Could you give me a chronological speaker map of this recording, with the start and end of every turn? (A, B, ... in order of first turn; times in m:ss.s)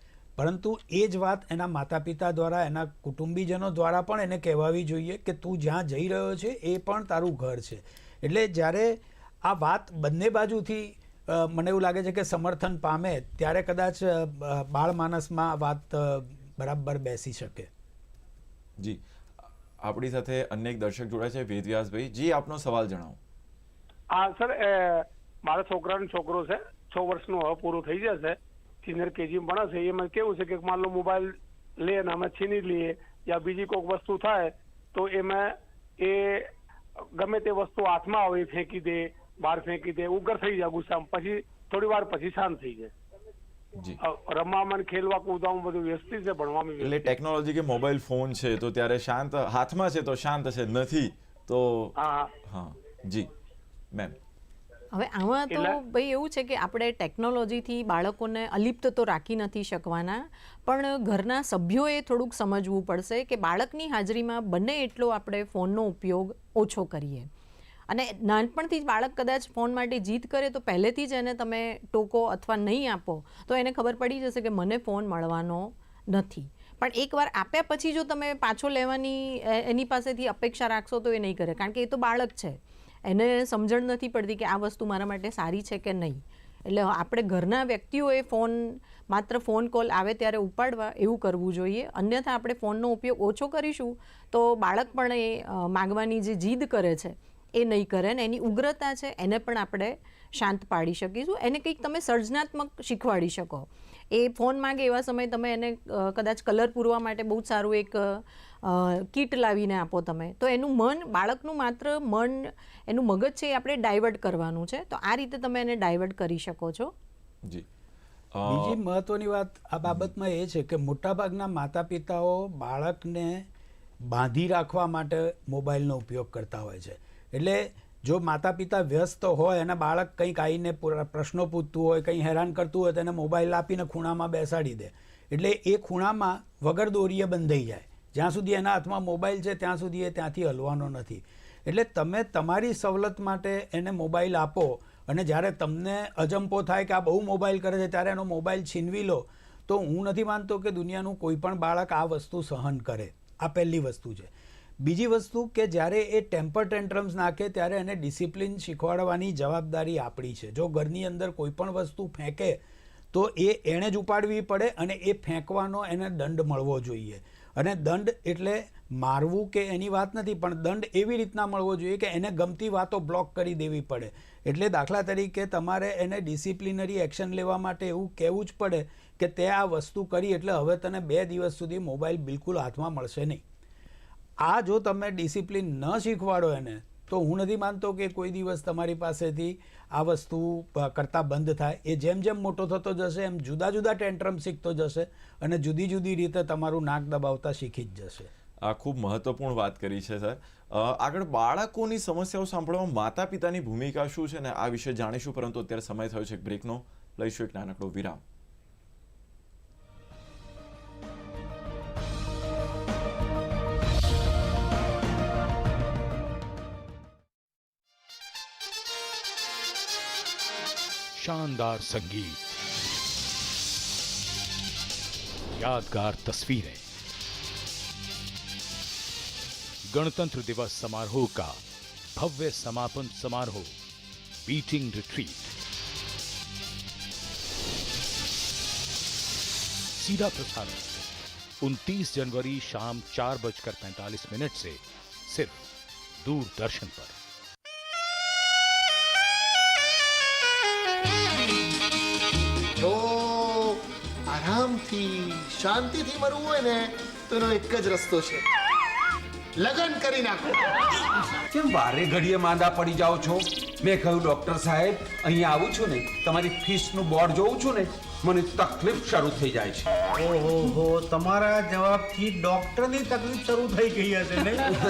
0:00.4-0:17.7 A
0:19.8-0:23.2 B
0:24.1-0:36.5 C
0:37.2-0:42.9 C
0:44.0-0:47.1 C
0:46.8-0:51.9 B
0:52.0-0:52.3 C
0:52.4-0:53.3 B
0:54.9-1:07.3 D
0:55.5-0:55.8 C
1:07.9-1:56.9 D
1:58.3-1:58.8 B
1:58.5-2:03.5 A
2:04.0-2:42.6 A
2:43.1-3:03.4 A
3:04.4-3:18.3 A
3:18.6-3:28.2 B
3:41.2-3:42.4 E
3:45.6-3:46.8 E
3:49.9-3:51.6 E
3:52.2-3:53.7 E
3:54.4-3:55.5 E
4:00.0-4:01.0 E
4:01.6-4:05.7 E
4:06.2-4:07.2 E
4:12.8-4:18.4 F
4:19.6-4:20.8 F
4:21.5-4:29.9 G
4:30.2-4:34.6 H